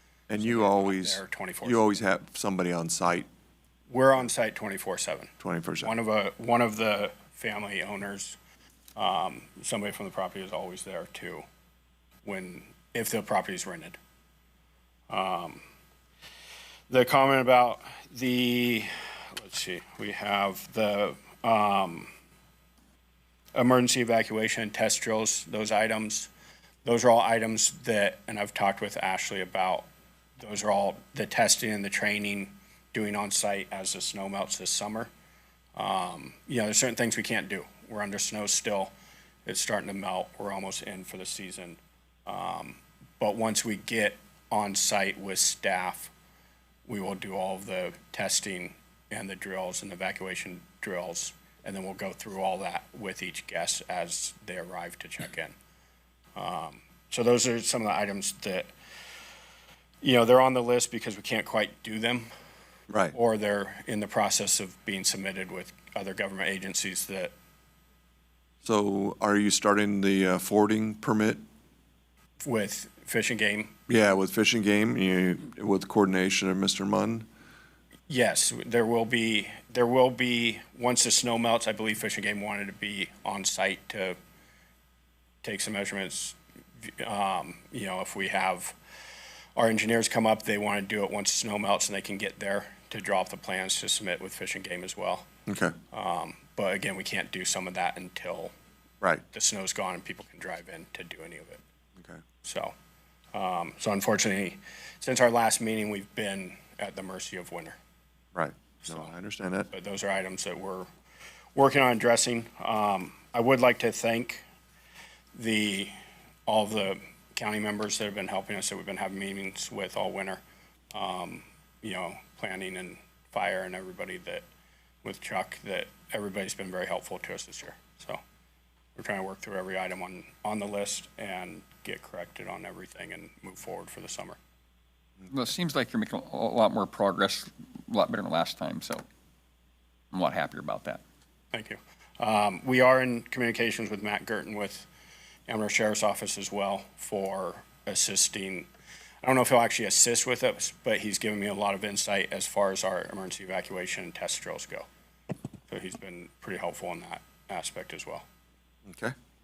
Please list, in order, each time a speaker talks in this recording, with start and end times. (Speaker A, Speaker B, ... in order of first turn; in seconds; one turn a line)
Speaker A: 0.3-3.3
Speaker B: 0.4-2.0
Speaker B: 3.9-5.3
Speaker A: 5.4-5.9
Speaker B: 5.8-8.4
Speaker B: 9.0-11.4
Speaker B: 12.2-14.0
Speaker B: 15.1-15.6
Speaker B: 16.9-22.1
Speaker B: 23.6-26.3
Speaker B: 26.9-29.9
Speaker B: 30.4-35.1
Speaker B: 35.8-38.9
Speaker B: 39.5-46.1
Speaker B: 46.9-55.5
Speaker B: 56.4-58.7
Speaker B: 60.0-62.3
Speaker A: 62.9-63.1
Speaker B: 63.1-67.3
Speaker A: 68.7-71.4
Speaker B: 72.4-73.7
Speaker A: 73.9-77.3
Speaker B: 78.1-84.2
Speaker B: 85.4-88.8
Speaker B: 89.6-95.3
Speaker A: 95.5-95.7
Speaker B: 95.9-98.5
Speaker B: 99.3-101.6
Speaker B: 102.4-102.7
Speaker B: 103.3-107.8
Speaker A: 108.3-109.7
Speaker B: 109.7-110.9
Speaker B: 111.6-114.4
Speaker B: 115.3-115.9
Speaker B: 116.5-120.4
Speaker B: 120.9-124.5
Speaker B: 125.0-128.2
Speaker B: 129.0-134.4
Speaker C: 135.3-139.0
Speaker C: 140.1-141.0
Speaker B: 141.5-144.9
Speaker B: 145.5-148.7
Speaker B: 149.2-154.9
Speaker B: 155.7-158.2
Speaker A: 158.9-159.1